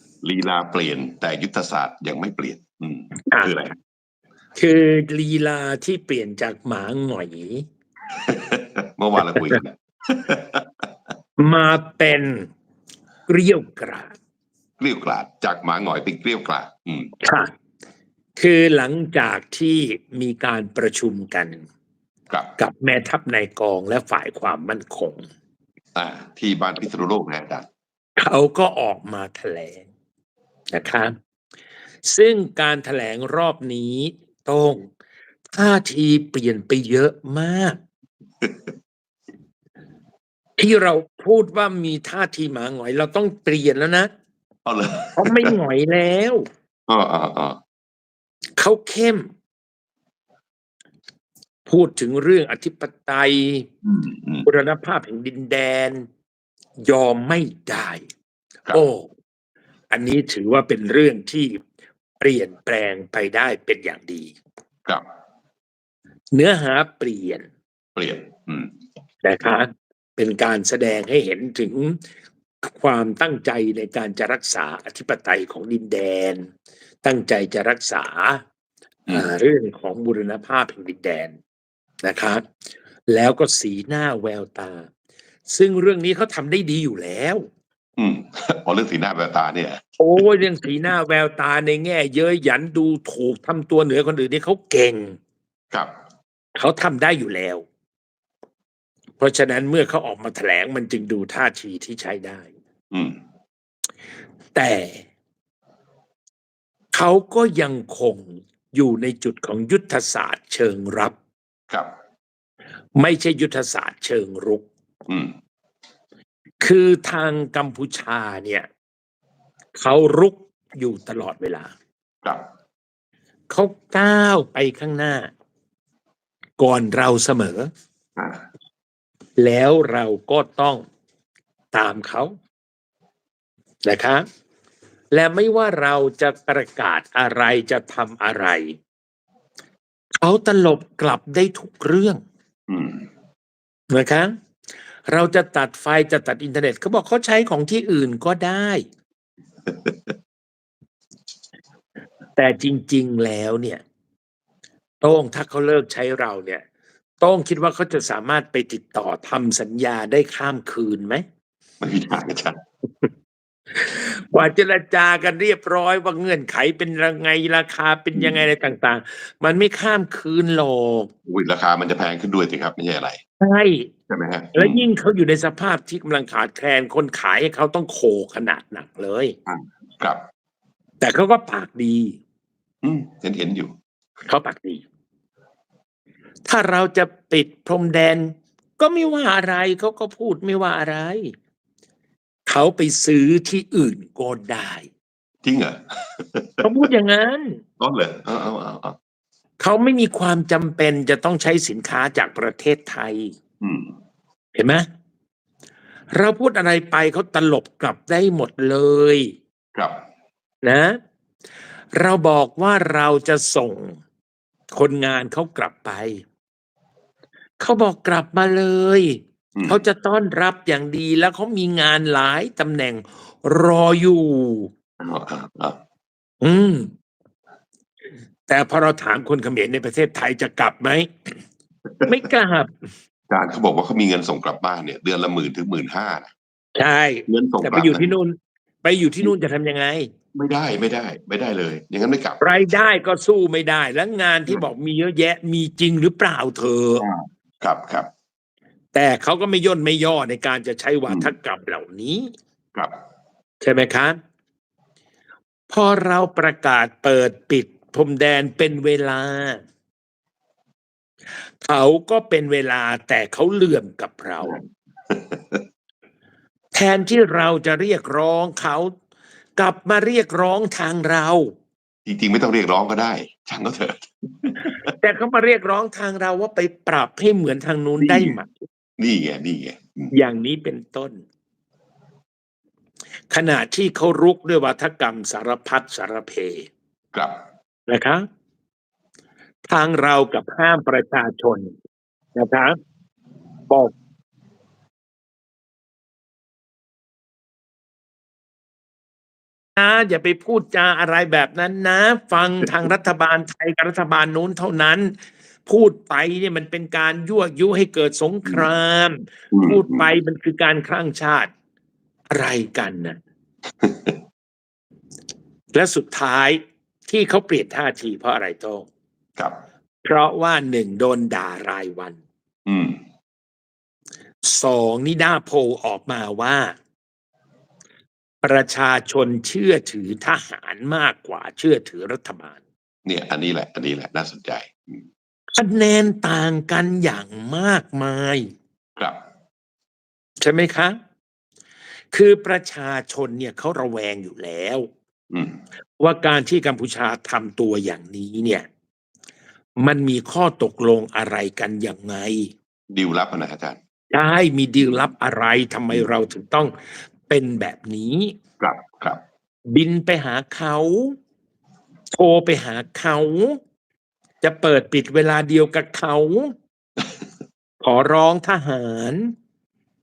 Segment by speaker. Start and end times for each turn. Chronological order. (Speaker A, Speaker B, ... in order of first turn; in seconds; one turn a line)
Speaker A: 0.2-3.8
Speaker B: 3.3-3.5
Speaker B: 4.6-7.7
Speaker A: 8.2-10.7
Speaker B: 11.4-12.5
Speaker B: 13.3-14.1
Speaker A: 14.8-17.1
Speaker B: 17.2-17.5
Speaker B: 18.4-21.6
Speaker A: 22.3-22.6
Speaker B: 22.6-25.2
Speaker A: 25.9-27.7
Speaker B: 28.2-29.9
Speaker B: 30.7-31.1
Speaker B: 32.0-34.9
Speaker B: 35.5-37.8
Speaker A: 38.4-38.7
Speaker B: 40.6-44.1
Speaker A: 44.6-45.5
Speaker B: 45.2-46.4
Speaker A: 46.9-47.6
Speaker B: 48.6-49.3
Speaker B: 51.7-53.7
Speaker A: 53.8-54.5
Speaker B: 54.5-56.0
Speaker B: 56.9-58.0
Speaker B: 58.7-59.1
Speaker B: 59.9-61.6
Speaker B: 62.2-64.3
Speaker B: 66.3-67.4
Speaker A: 68.0-68.7
Speaker B: 69.2-72.0
Speaker B: 72.6-76.5
Speaker B: 77.0-78.4
Speaker B: 79.1-81.4
Speaker B: 82.0-82.4
Speaker B: 83.1-84.9
Speaker B: 85.5-87.4
Speaker A: 88.0-90.2
Speaker B: 90.0-95.2
Speaker B: 96.5-97.6
Speaker B: 99.2-102.5
Speaker B: 104.5-105.0
Speaker B: 106.9-111.2
Speaker B: 113.0-114.7
Speaker A: 115.1-115.3
Speaker B: 116.6-118.7
Speaker B: 119.8-121.7
Speaker B: 123.5-125.3
Speaker B: 126.6-127.7
Speaker A: 128.2-128.4
Speaker B: 129.4-130.8
Speaker B: 131.7-132.3
Speaker B: 133.8-134.2
Speaker B: 135.1-138.8
Speaker B: 140.2-142.2
Speaker A: 142.7-143.1
Speaker B: 143.9-144.3
Speaker B: 145.1-148.8
Speaker A: 149.7-150.1
Speaker B: 152.4-153.8
Speaker B: 155.0-156.6
Speaker B: 157.2-161.2
Speaker A: 161.8-162.6
Speaker B: 163.8-171.1
Speaker A: 168.1-168.4
Speaker A: 171.3-173.2
Speaker B: 173.4-173.9
Speaker A: 174.1-174.8
Speaker B: 174.6-179.4
Speaker A: 179.5-180.2
Speaker B: 181.0-182.2
Speaker A: 182.8-183.8
Speaker B: 184.3-184.8
Speaker B: 186.5-191.3
Speaker B: 192.5-194.9
Speaker A: 195.4-196.9
Speaker B: 196.6-197.6
Speaker A: 197.8-199.0
Speaker B: 199.6-203.3
Speaker A: 203.6-203.9
Speaker B: 204.6-204.9
Speaker B: 206.1-209.3
Speaker B: 210.6-211.0
Speaker B: 211.9-214.0
Speaker B: 214.7-216.2
Speaker B: 217.6-224.7
Speaker A: 219.6-219.8
Speaker A: 225.0-225.8
Speaker B: 226.4-226.9
Speaker B: 228.5-231.3
Speaker A: 231.9-232.2
Speaker B: 232.1-232.9
Speaker A: 233.3-236.3
Speaker B: 236.8-240.1
Speaker A: 237.3-238.1
Speaker A: 240.3-242.5
Speaker B: 242.4-247.0
Speaker A: 247.0-248.1
Speaker B: 248.9-252.3
Speaker A: 251.1-251.3
Speaker B: 253.6-254.2
Speaker B: 255.7-259.6
Speaker B: 261.6-264.6
Speaker A: 264.4-265.6
Speaker B: 266.7-268.9
Speaker B: 269.6-271.5
Speaker A: 272.1-274.8
Speaker B: 274.9-278.5
Speaker A: 278.0-278.4
Speaker A: 279.0-280.1
Speaker B: 280.1-281.2
Speaker B: 283.3-286.7
Speaker A: 287.1-287.4
Speaker B: 287.9-288.3
Speaker B: 289.7-291.8
Speaker B: 292.4-292.8
Speaker B: 299.8-311.5
Speaker A: 309.5-310.1
Speaker B: 312.3-313.2
Speaker A: 313.8-314.2
Speaker B: 315.7-318.9
Speaker B: 320.0-322.2
Speaker A: 322.7-323.0
Speaker B: 324.4-326.8
Speaker B: 328.4-332.6
Speaker A: 333.1-335.0
Speaker B: 335.6-338.5
Speaker B: 340.4-341.0
Speaker B: 342.1-344.9
Speaker A: 345.3-345.6
Speaker B: 346.0-348.7
Speaker B: 349.8-352.5
Speaker A: 352.9-353.8
Speaker B: 354.1-356.8
Speaker B: 357.3-358.4
Speaker A: 358.6-359.2
Speaker B: 359.7-361.1
Speaker B: 362.1-363.6
Speaker B: 364.4-366.5
Speaker B: 367.8-369.3